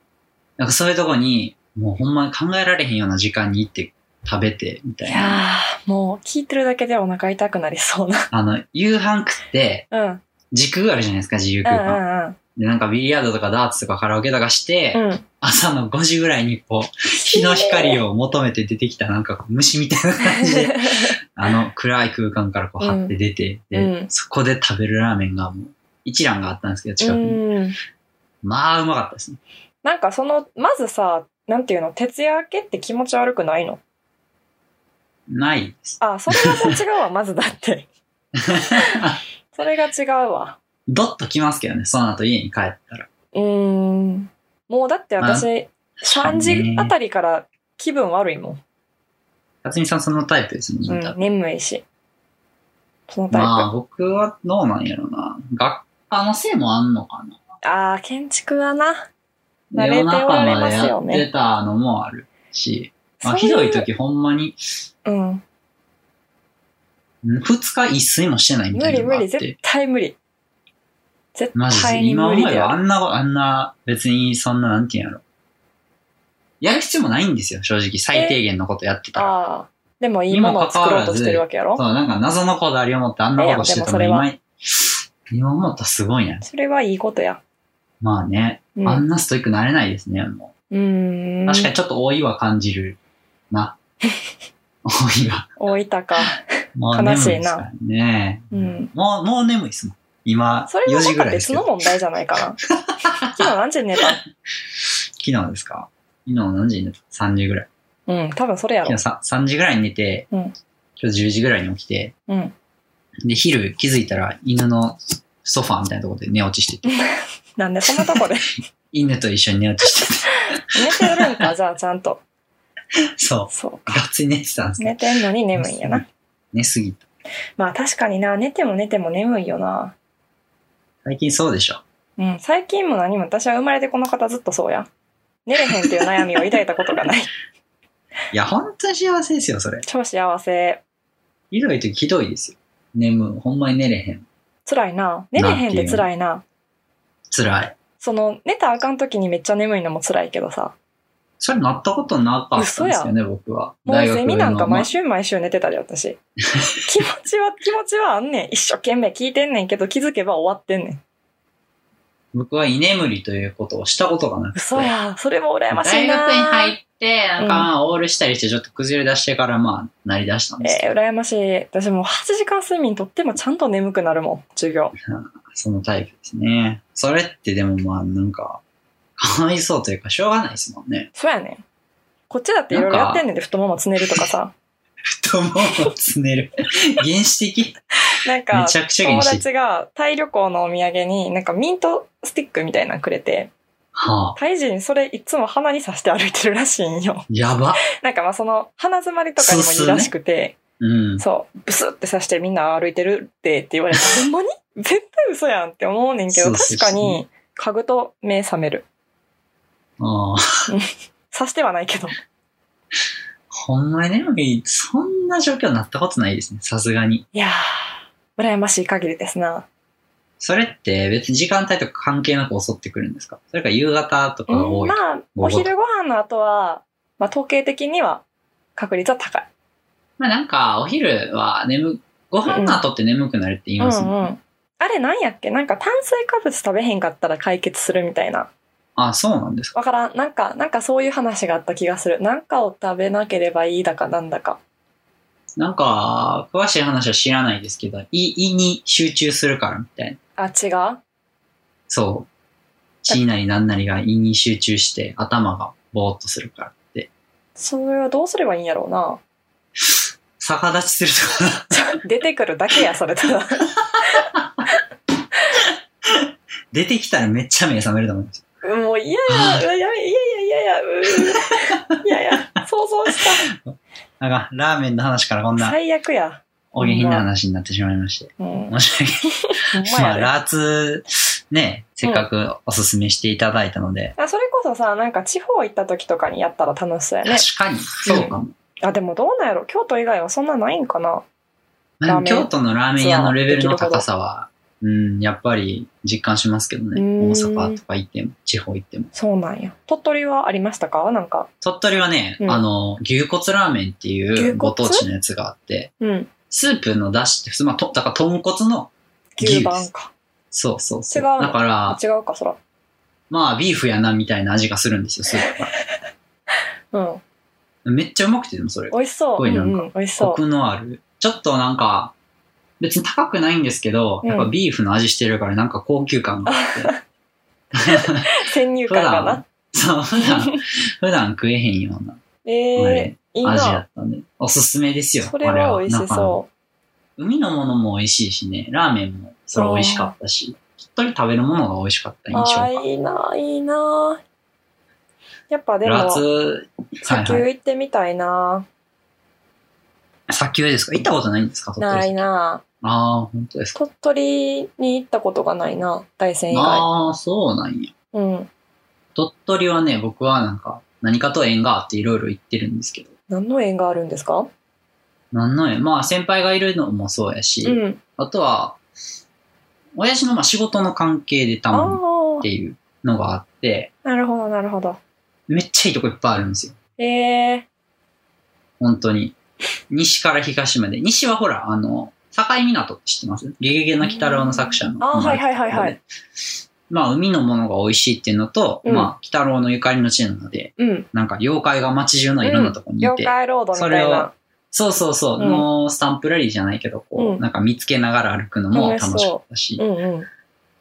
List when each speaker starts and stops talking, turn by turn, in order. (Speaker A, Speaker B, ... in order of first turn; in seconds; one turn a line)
Speaker A: 0.6-5.4
Speaker B: 5.0-8.3
Speaker A: 8.3-9.9
Speaker B: 9.9-10.2
Speaker A: 10.5-12.0
Speaker B: 11.6-12.4
Speaker A: 12.6-27.4
Speaker B: 14.9-15.2
Speaker B: 17.2-18.0
Speaker B: 20.2-21.1
Speaker B: 22.8-23.1
Speaker B: 23.7-24.1
Speaker B: 27.0-27.8
Speaker A: 28.4-29.4
Speaker B: 29.8-33.8
Speaker A: 35.3-36.7
Speaker B: 36.0-37.9
Speaker A: 38.4-39.2
Speaker B: 38.6-40.6
Speaker A: 40.9-43.1
Speaker B: 43.3-48.6
Speaker A: 45.2-46.9
Speaker A: 49.6-51.1
Speaker B: 50.9-51.8
Speaker B: 53.1-53.7
Speaker A: 53.3-57.4
Speaker B: 57.6-59.1
Speaker A: 59.7-64.6
Speaker B: 59.7-61.3
Speaker B: 63.2-63.9
Speaker B: 65.0-65.4
Speaker A: 67.2-69.5
Speaker B: 68.7-70.2
Speaker B: 71.3-72.8
Speaker A: 71.5-75.2
Speaker A: 76.6-79.3
Speaker B: 78.1-78.4
Speaker B: 79.2-81.8
Speaker A: 80.3-86.4
Speaker B: 83.4-84.3
Speaker B: 86.4-87.4
Speaker A: 88.0-90.5
Speaker B: 88.8-89.0
Speaker B: 90.7-91.7
Speaker A: 91.5-93.0
Speaker A: 93.5-93.8
Speaker A: 94.8-95.5
Speaker B: 95.6-97.6
Speaker A: 96.8-101.7
Speaker B: 98.5-98.9
Speaker B: 100.7-102.6
Speaker A: 102.7-103.5
Speaker B: 103.3-104.2
Speaker A: 105.2-107.7
Speaker B: 108.1-109.0
Speaker A: 108.8-110.3
Speaker A: 111.0-112.1
Speaker B: 112.3-112.5
Speaker A: 113.2-117.0
Speaker B: 116.8-118.5
Speaker A: 117.9-118.2
Speaker A: 118.9-121.4
Speaker B: 120.7-122.2
Speaker A: 123.2-125.0
Speaker B: 123.5-124.0
Speaker B: 124.8-126.0
Speaker A: 125.5-127.1
Speaker B: 127.6-129.9
Speaker A: 131.0-131.8
Speaker B: 132.2-134.9
Speaker B: 135.4-137.3
Speaker A: 135.8-136.2
Speaker A: 138.3-139.8
Speaker B: 139.8-140.8
Speaker A: 141.5-144.2
Speaker B: 144.7-146.4
Speaker A: 145.3-146.1
Speaker A: 147.3-147.8
Speaker B: 148.0-150.7
Speaker A: 151.4-154.9
Speaker B: 152.6-153.1
Speaker B: 153.8-156.2
Speaker B: 156.8-161.0
Speaker A: 162.3-164.9
Speaker B: 164.5-166.8
Speaker A: 165.7-170.9
Speaker B: 167.4-167.7
Speaker B: 170.6-174.9
Speaker A: 175.1-178.6
Speaker A: 179.2-181.1
Speaker B: 181.1-181.6
Speaker B: 182.3-184.5
Speaker A: 182.7-183.2
Speaker A: 185.1-187.8
Speaker B: 188.2-193.5
Speaker A: 188.5-189.4
Speaker A: 193.9-194.4
Speaker B: 194.3-197.3
Speaker A: 197.3-197.8
Speaker B: 198.0-200.6
Speaker A: 199.4-200.1
Speaker A: 200.8-201.2
Speaker B: 201.2-208.8
Speaker A: 206.3-207.2
Speaker A: 210.0-210.7
Speaker B: 210.7-212.1
Speaker A: 213.5-217.2
Speaker B: 217.3-219.7
Speaker A: 220.4-225.7
Speaker B: 224.5-228.2
Speaker B: 228.8-229.5
Speaker A: 230.2-234.3
Speaker B: 232.4-232.8
Speaker B: 233.8-238.5
Speaker A: 238.9-239.7
Speaker B: 239.7-244.6
Speaker A: 245.6-250.2
Speaker B: 250.4-251.0
Speaker A: 251.9-252.3
Speaker A: 253.1-257.1
Speaker B: 257.6-259.2
Speaker A: 259.9-261.8
Speaker B: 261.7-264.3
Speaker A: 266.0-268.4
Speaker B: 268.6-273.4
Speaker A: 269.3-269.6
Speaker A: 273.1-275.8
Speaker B: 275.6-277.3
Speaker A: 276.7-279.3
Speaker B: 278.4-278.8
Speaker B: 279.4-280.3
Speaker A: 279.8-284.1
Speaker B: 284.2-287.4
Speaker A: 287.2-288.5
Speaker B: 288.0-291.2
Speaker A: 292.0-299.1
Speaker B: 292.1-294.0
Speaker B: 296.9-297.8
Speaker B: 299.1-301.5
Speaker A: 301.6-305.9
Speaker B: 304.3-305.1
Speaker B: 306.0-306.3
Speaker A: 306.5-309.9
Speaker B: 309.4-310.1
Speaker A: 310.5-312.0
Speaker B: 311.1-312.6
Speaker A: 313.3-315.7
Speaker B: 316.9-317.2
Speaker A: 317.8-322.1
Speaker B: 318.9-320.4
Speaker A: 322.8-326.9
Speaker B: 324.2-324.5
Speaker B: 326.4-327.0
Speaker A: 327.8-328.3
Speaker B: 327.8-329.5
Speaker A: 328.9-332.2
Speaker B: 330.1-330.6
Speaker B: 332.4-333.8
Speaker A: 332.8-336.4
Speaker B: 335.2-336.5
Speaker A: 337.2-342.8
Speaker B: 339.6-340.1
Speaker B: 342.3-344.2
Speaker B: 345.5-346.2
Speaker A: 345.8-347.5
Speaker B: 347.0-348.7
Speaker A: 350.3-352.3
Speaker B: 351.8-352.6
Speaker A: 352.8-353.8
Speaker B: 353.7-356.9
Speaker A: 356.5-357.9
Speaker B: 358.1-358.5
Speaker A: 359.1-363.1
Speaker B: 363.3-364.5
Speaker A: 365.3-368.8
Speaker B: 367.6-368.0
Speaker A: 369.9-373.9
Speaker B: 371.7-372.5
Speaker B: 374.0-375.0
Speaker A: 375.5-376.8
Speaker B: 377.0-377.7
Speaker A: 378.8-379.4
Speaker A: 379.9-386.0
Speaker B: 384.0-386.0
Speaker A: 386.9-399.8
Speaker B: 388.8-389.1
Speaker B: 390.8-391.1
Speaker B: 392.4-394.3
Speaker B: 395.4-395.6
Speaker B: 397.2-397.4
Speaker B: 398.7-400.3